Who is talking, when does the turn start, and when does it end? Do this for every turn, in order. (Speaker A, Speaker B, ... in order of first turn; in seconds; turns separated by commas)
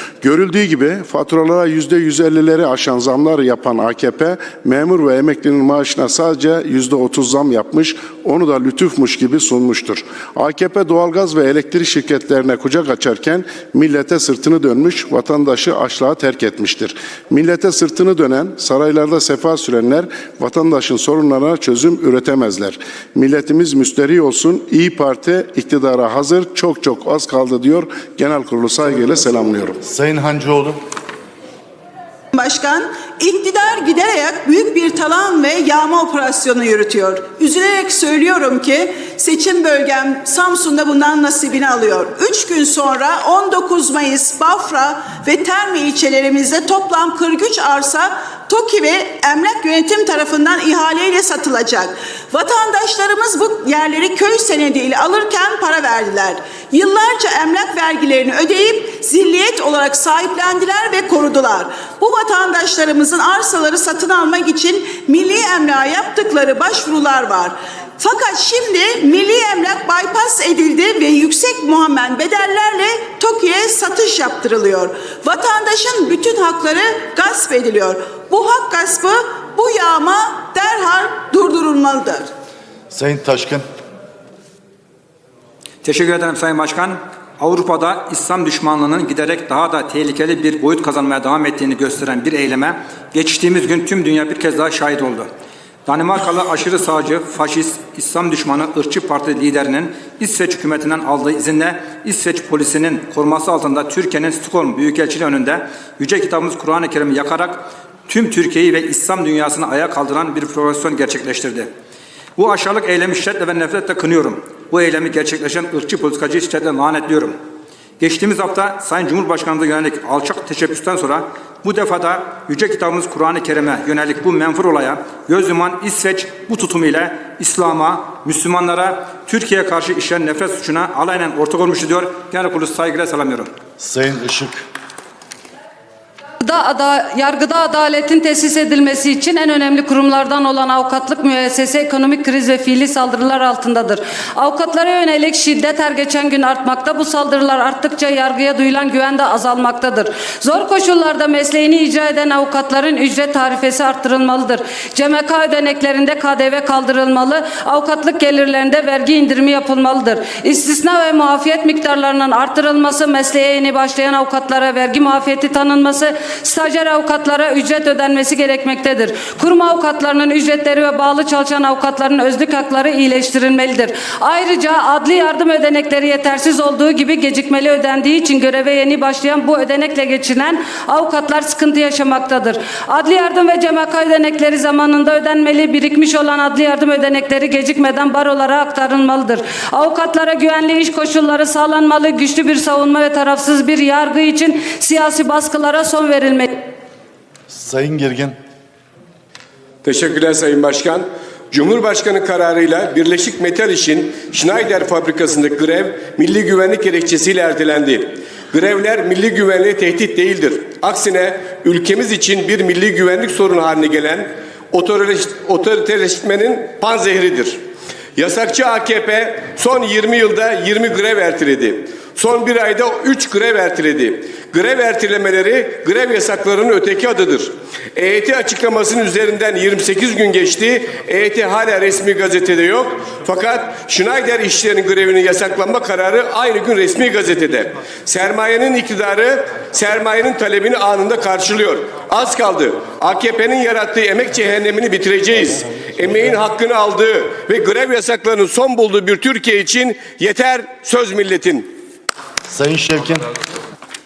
Speaker A: 0.2-29.8, Speaker B: 29.8-30.8, Speaker C: 32.3-82.3, Speaker B: 82.9-83.7, Speaker D: 85.8-95.3, Speaker D: 95.8-111.7, Speaker D: 112.4-117.4, Speaker D: 118.0-133.5, Speaker B: 133.8-134.6, Speaker E: 136.4-196.5, Speaker B: 197.5-198.3, Speaker F: 199.8-217.6, Speaker F: 218.2-251.7, Speaker B: 252.5-253.3